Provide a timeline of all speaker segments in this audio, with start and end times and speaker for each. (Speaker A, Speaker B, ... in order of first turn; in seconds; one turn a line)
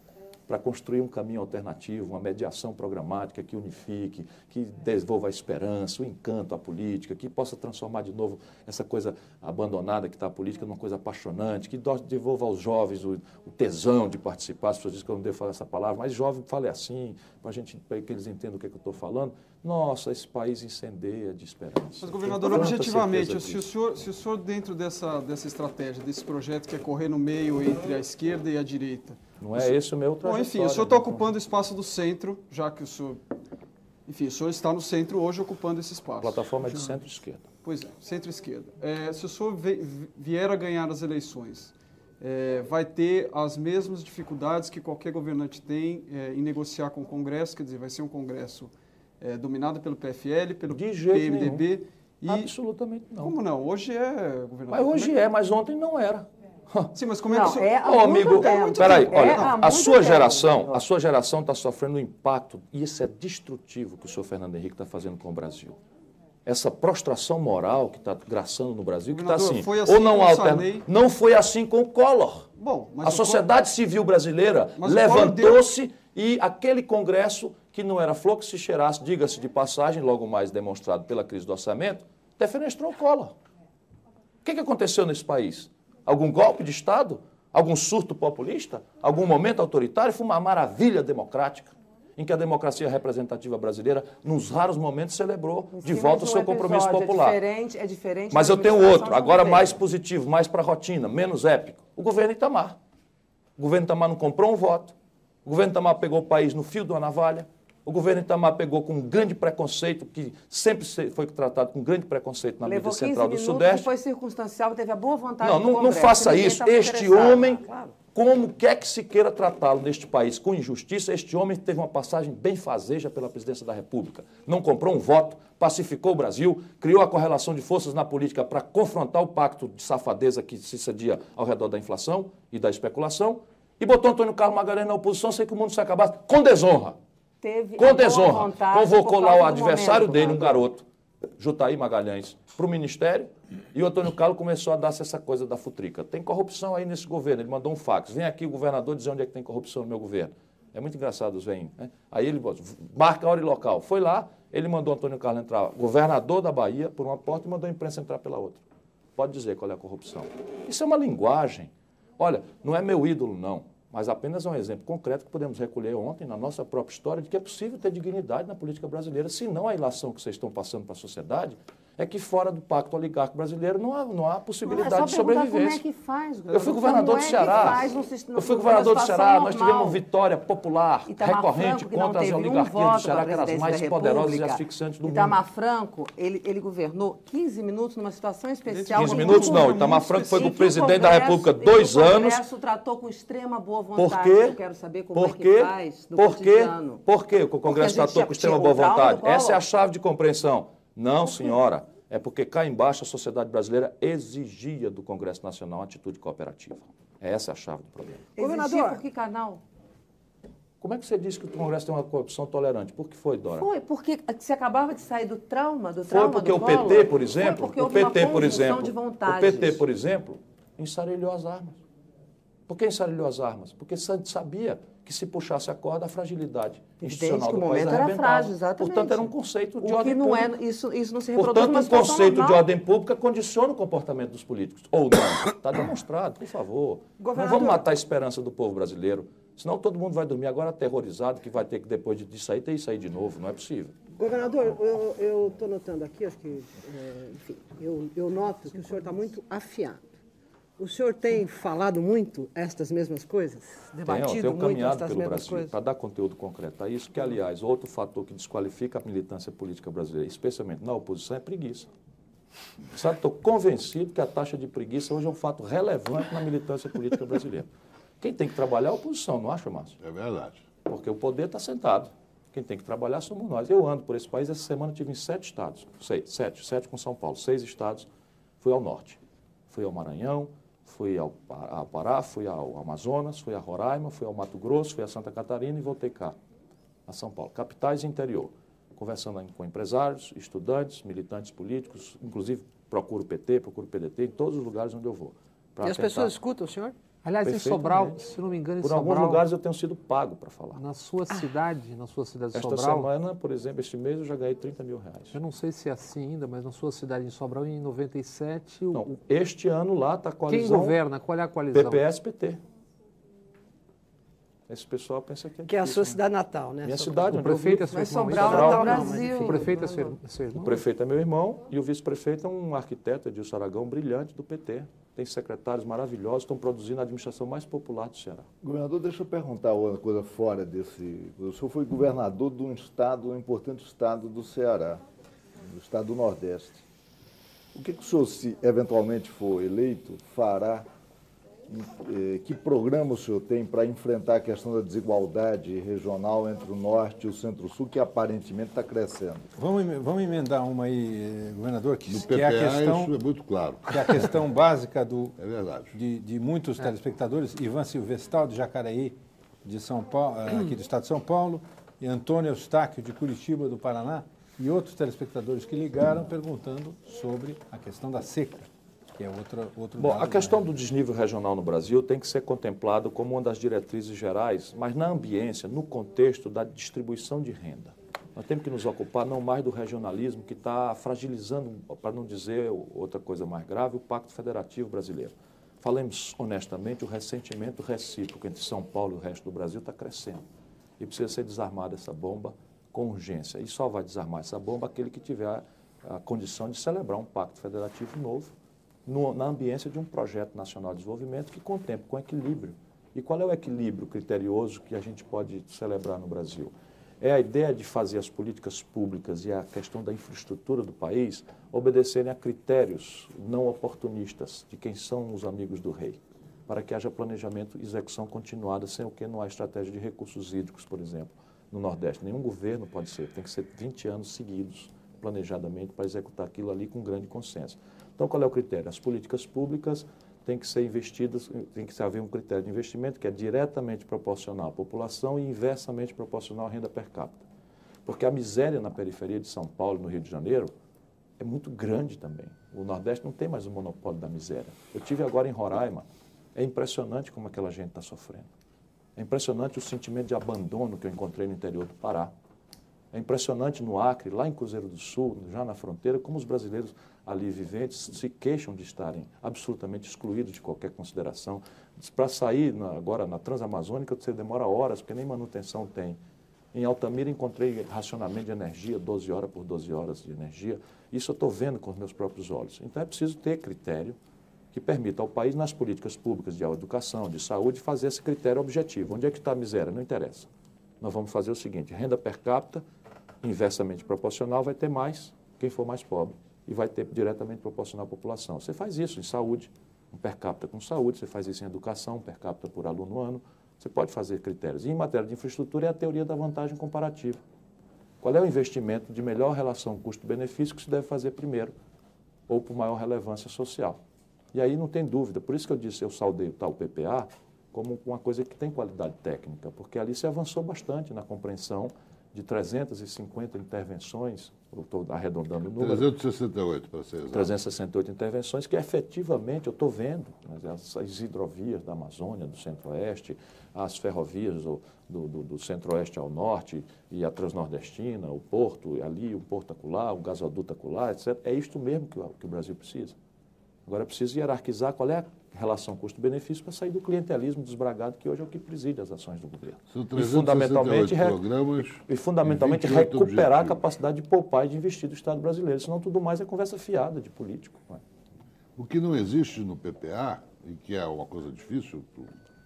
Speaker A: 0.5-23.7
Speaker B: 22.0-33.2
Speaker A: 29.4-31.3
Speaker B: 34.0-37.0
Speaker A: 36.2-37.5
Speaker B: 37.6-52.5
Speaker A: 50.7-51.7
Speaker A: 52.3-53.4
Speaker B: 53.2-55.2
Speaker A: 54.7-56.9
Speaker B: 56.9-59.6
Speaker C: 57.3-60.8
Speaker A: 57.8-65.8
Speaker A: 66.4-72.5
Speaker B: 69.1-70.8
Speaker B: 72.6-73.5
Speaker A: 73.0-83.3
Speaker B: 74.8-75.6
Speaker A: 84.4-97.4
Speaker C: 95.7-99.8
Speaker A: 98.3-102.8
Speaker A: 103.6-113.9
Speaker C: 112.6-117.9
Speaker A: 115.4-117.6
Speaker A: 118.1-137.0
Speaker C: 137.4-140.7
Speaker A: 137.8-140.8
Speaker A: 141.4-158.6
Speaker A: 159.2-175.8
Speaker C: 174.6-180.0
Speaker A: 176.5-185.4
Speaker C: 181.1-197.0
Speaker B: 188.7-190.7
Speaker A: 188.9-192.4
Speaker A: 193.9-194.6
Speaker A: 195.1-208.3
Speaker C: 197.6-199.6
Speaker C: 208.4-209.6
Speaker D: 208.4-209.0
Speaker A: 210.8-213.7
Speaker C: 213.5-219.8
Speaker A: 216.1-221.8
Speaker A: 222.7-230.5
Speaker C: 227.0-232.6
Speaker A: 231.3-243.9
Speaker D: 237.2-237.9
Speaker D: 244.1-250.0
Speaker D: 250.8-255.7
Speaker A: 254.1-261.9
Speaker A: 262.9-267.7
Speaker A: 268.2-269.9
Speaker E: 270.0-270.6
Speaker A: 270.9-278.1
Speaker A: 278.6-286.4
Speaker A: 287.1-296.3
Speaker D: 295.8-296.9
Speaker F: 297.2-299.5
Speaker A: 297.4-298.2
Speaker A: 298.8-300.8
Speaker F: 300.8-303.1
Speaker A: 302.5-305.4
Speaker F: 305.3-309.1
Speaker A: 308.9-311.0
Speaker F: 310.5-312.0
Speaker A: 311.7-312.6
Speaker A: 314.7-316.2
Speaker D: 315.7-320.0
Speaker A: 316.8-319.2
Speaker F: 317.2-320.8
Speaker C: 317.9-319.9
Speaker A: 320.5-328.5
Speaker G: 328.6-335.0
Speaker G: 335.6-336.8
Speaker G: 337.7-340.9
Speaker G: 341.7-349.5
Speaker H: 349.6-353.1
Speaker E: 352.1-354.3
Speaker H: 353.9-355.4
Speaker E: 355.4-355.9
Speaker H: 355.9-370.7
Speaker A: 370.0-390.4
Speaker A: 391.0-398.5
Speaker A: 399.1-437.4
Speaker A: 438.1-440.7
Speaker A: 441.4-448.5
Speaker A: 449.1-452.3
Speaker A: 453.1-466.2
Speaker A: 466.7-474.2
Speaker A: 474.7-480.5
Speaker A: 481.0-482.8
Speaker A: 483.4-497.4
Speaker A: 498.2-501.7
Speaker A: 502.5-504.0
Speaker A: 504.5-516.1
Speaker E: 515.8-517.5
Speaker A: 517.3-533.2
Speaker A: 533.9-541.4
Speaker E: 539.9-543.8
Speaker A: 542.0-548.0
Speaker E: 548.8-552.3